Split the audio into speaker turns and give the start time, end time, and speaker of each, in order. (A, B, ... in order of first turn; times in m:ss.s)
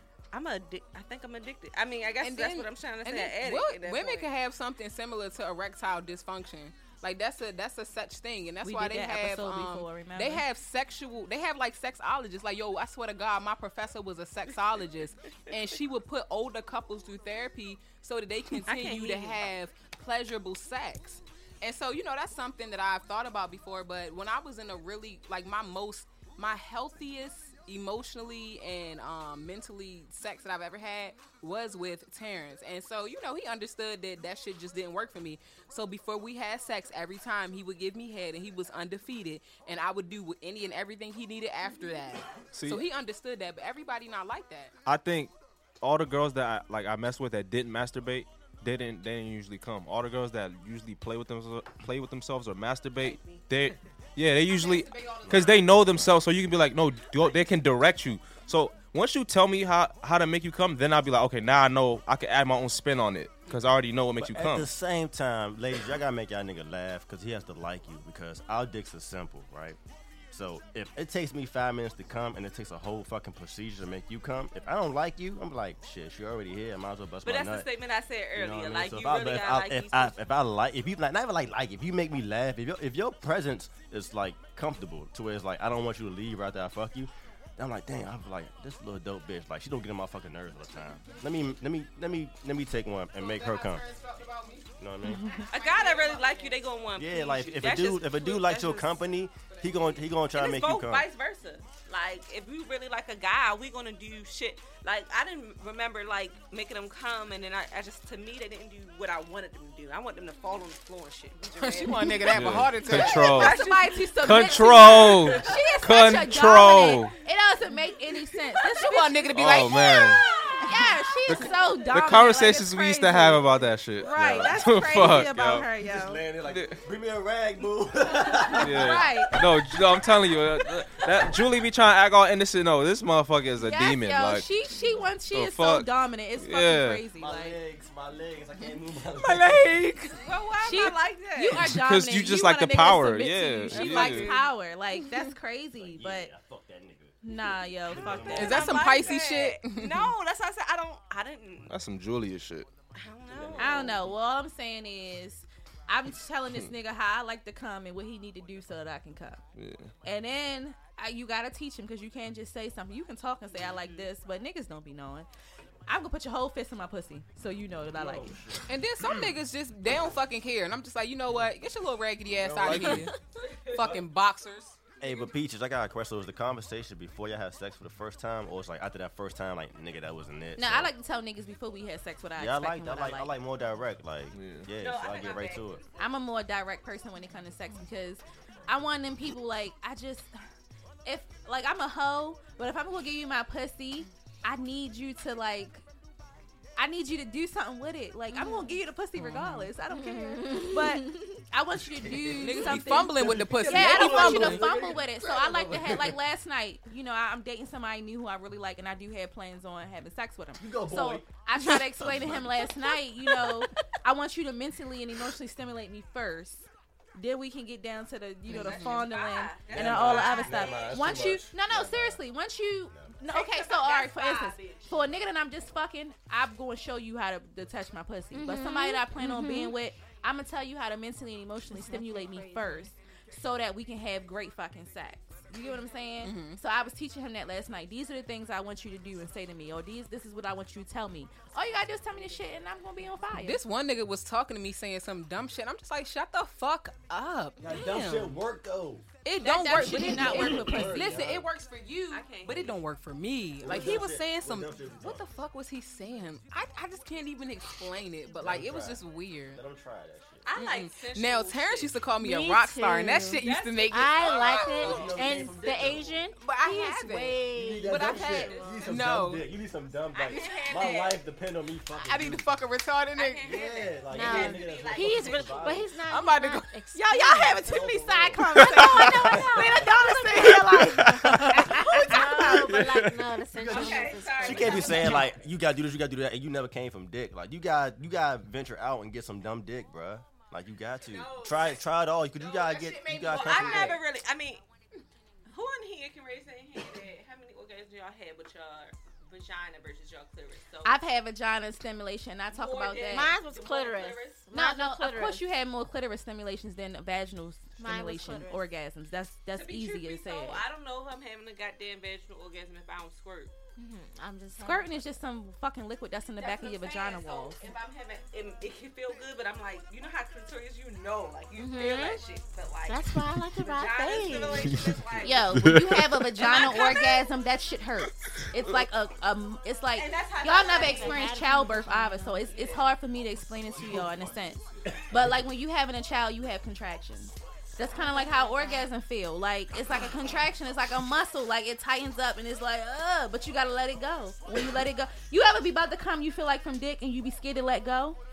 0:00.3-0:04.3 A
0:02.2-0:44.7 B
0:08.6-0:10.4 C
0:18.7-0:19.4 A
0:42.5-0:42.8 D
0:44.8-1:04.7 D
0:53.0-0:53.4 A
0:54.4-0:55.7 B
0:55.3-0:56.2 E
1:04.2-1:09.8 E
1:10.3-1:17.7 E
1:17.2-1:20.2 A
1:18.3-1:33.8 E
1:33.1-1:36.7 B
1:34.8-1:35.3 E
1:35.0-1:35.4 C
1:35.5-1:55.7 A
1:37.0-1:41.1 E
1:51.6-1:53.6 B
1:52.3-1:53.6 D
1:53.3-1:59.3 C
1:54.2-1:57.1 D
1:58.8-2:00.6 B
1:59.3-2:00.2 D
2:00.6-2:06.2 C
2:01.3-2:05.7 D
2:05.8-2:08.9 E
2:06.5-2:06.8 D
2:08.5-2:09.4 C
2:08.6-2:14.5 D
2:13.6-2:17.6 C
2:14.8-2:15.1 E
2:15.3-2:15.9 D
2:16.4-2:17.1 D
2:17.1-2:19.9 E
2:19.1-2:20.9 B
2:20.1-2:21.6 A
2:20.6-2:26.3 C
2:21.6-2:24.4 D
2:23.7-2:24.4 B
2:23.8-2:24.0 A
2:25.8-2:27.2 E
2:27.2-2:28.8 C
2:27.8-2:29.2 E
2:28.0-2:31.7 A
2:28.3-2:30.1 B
2:31.7-2:32.7 D
2:32.9-2:34.0 A
2:33.3-2:34.1 E
2:33.6-2:39.4 C
2:39.6-2:39.9 D
2:40.0-2:45.3 C
2:43.7-2:44.0 A
2:45.9-2:48.4 C
2:47.9-2:48.7 E
2:48.7-2:53.1 B
2:52.3-2:53.1 E
2:52.6-2:53.0 D
2:53.4-2:53.9 A
2:53.7-2:54.8 B
2:55.0-3:00.9 E
3:00.6-3:03.3 C
3:02.4-3:05.8 E
3:04.3-3:04.7 D
3:04.7-3:05.8 A
3:06.0-3:10.3 C
3:11.0-3:15.8 C
3:16.8-4:03.6 C
3:18.3-3:18.8 F
3:19.2-3:19.7 B
3:19.9-3:21.4 F
3:21.8-3:26.2 E
3:22.4-3:24.7 B
3:30.6-3:31.3 E
3:32.0-3:32.6 E
3:38.5-3:39.1 B
3:38.5-3:41.1 A
3:39.7-3:42.2 E
3:42.9-3:43.2 E
3:43.3-3:45.1 A
3:48.3-3:49.7 F
3:51.7-3:52.9 F
3:56.2-3:56.6 B
4:03.3-4:08.4 B
4:07.6-4:09.0 E
4:09.2-4:19.6 B
4:09.4-4:11.3 C
4:09.9-4:11.5 E
4:12.1-4:12.8 A
4:13.6-4:15.3 E
4:18.4-4:20.4 E
4:20.4-4:22.0 A
4:20.6-4:24.8 B
4:22.2-4:28.1 F
4:23.4-4:25.3 A
4:24.6-4:26.2 E
4:26.4-4:29.4 B
4:27.5-4:32.4 E
4:28.0-4:28.9 A
4:30.1-4:31.2 A
4:31.9-4:33.6 B
4:33.1-4:35.7 A
4:33.4-4:35.9 E
4:34.1-4:37.6 F
4:36.0-4:36.7 B
4:36.9-4:42.7 C
4:37.6-4:39.9 E
4:38.5-4:45.3 F
4:40.5-4:41.7 D
4:42.5-4:43.2 D
4:43.6-4:54.0 E
4:43.6-4:45.4 A
4:51.0-4:54.6 A
4:55.5-5:01.0 A
5:00.8-5:03.4 C
5:02.5-5:04.5 A
5:03.1-5:05.4 F
5:04.5-5:10.6 C
5:07.8-5:08.6 F
5:09.5-5:13.5 A
5:13.8-5:15.1 F
5:14.6-5:17.6 C
5:16.4-5:25.6 A
5:21.6-5:22.2 F
5:22.8-5:24.8 F
5:25.2-5:48.2 C
5:25.5-5:26.2 D
5:26.3-5:27.3 A
5:30.0-5:31.3 A
5:30.7-5:32.5 F
5:32.4-5:32.9 A
5:33.7-5:35.4 E
5:38.0-5:38.9 F